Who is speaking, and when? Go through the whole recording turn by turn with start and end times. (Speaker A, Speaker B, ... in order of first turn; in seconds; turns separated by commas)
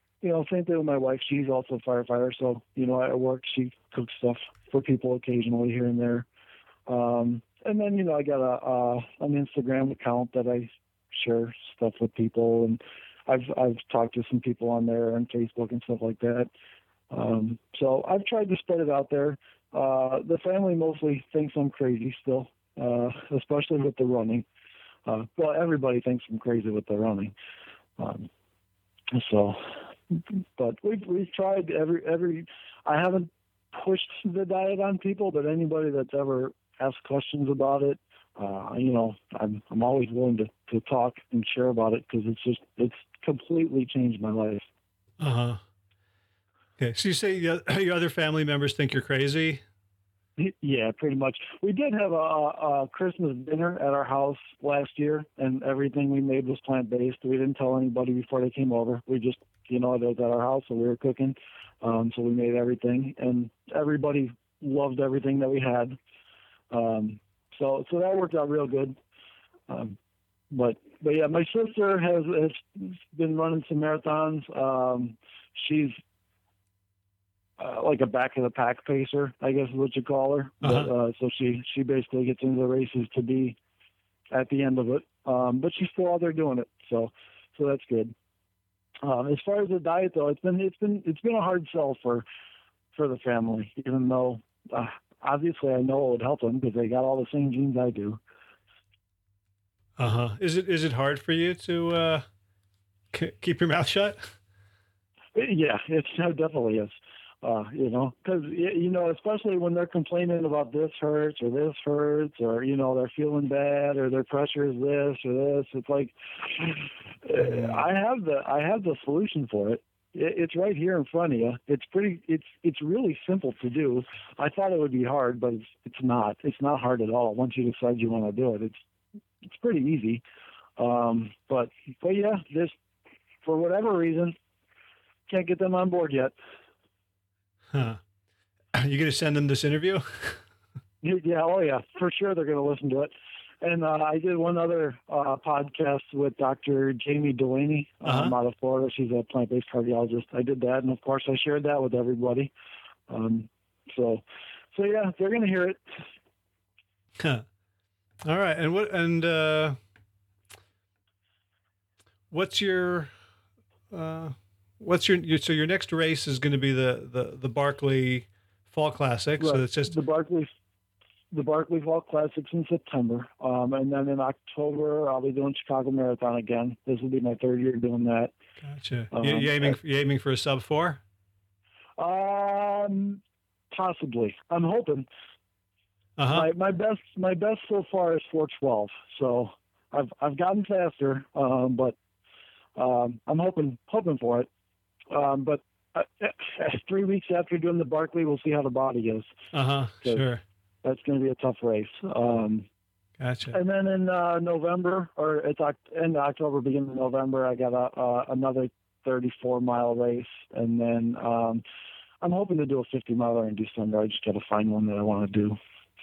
Speaker A: 0.2-6.3, Speaker A: 6.9-16.5, Speaker A: 17.1-24.4, Speaker A: 25.1-27.3, Speaker A: 28.0-28.3, Speaker A: 29.1-44.6, Speaker B: 45.2-45.6, Speaker B: 46.8-49.6, Speaker A: 50.4-66.0, Speaker A: 66.7-69.0, Speaker A: 69.7-70.0, Speaker A: 70.5-75.9, Speaker A: 77.6-83.6, Speaker B: 80.6-80.9, Speaker A: 84.3-88.1, Speaker A: 89.0-92.2, Speaker A: 92.9-98.2, Speaker B: 100.0-102.2, Speaker B: 103.1-104.4, Speaker A: 105.3-128.8, Speaker B: 117.4-117.8, Speaker A: 129.4-130.2, Speaker A: 130.8-132.7, Speaker A: 133.4-134.3, Speaker A: 135.3-136.3, Speaker B: 137.7-138.0, Speaker B: 138.7-140.4, Speaker A: 141.0-152.5, Speaker B: 148.0-148.3, Speaker A: 153.1-154.2, Speaker A: 154.7-156.0, Speaker B: 157.2-157.4, Speaker B: 158.2-159.8, Speaker B: 162.3-163.1, Speaker B: 163.9-169.9, Speaker A: 169.4-170.5, Speaker A: 171.3-178.3, Speaker B: 178.6-181.0, Speaker A: 179.1-179.8, Speaker A: 182.0-185.1, Speaker B: 186.2-186.4, Speaker A: 186.3-191.9, Speaker A: 192.8-194.5, Speaker A: 195.1-199.3, Speaker B: 199.5-200.4, Speaker A: 200.8-202.7, Speaker B: 203.2-203.6, Speaker A: 203.5-211.6, Speaker A: 212.2-215.6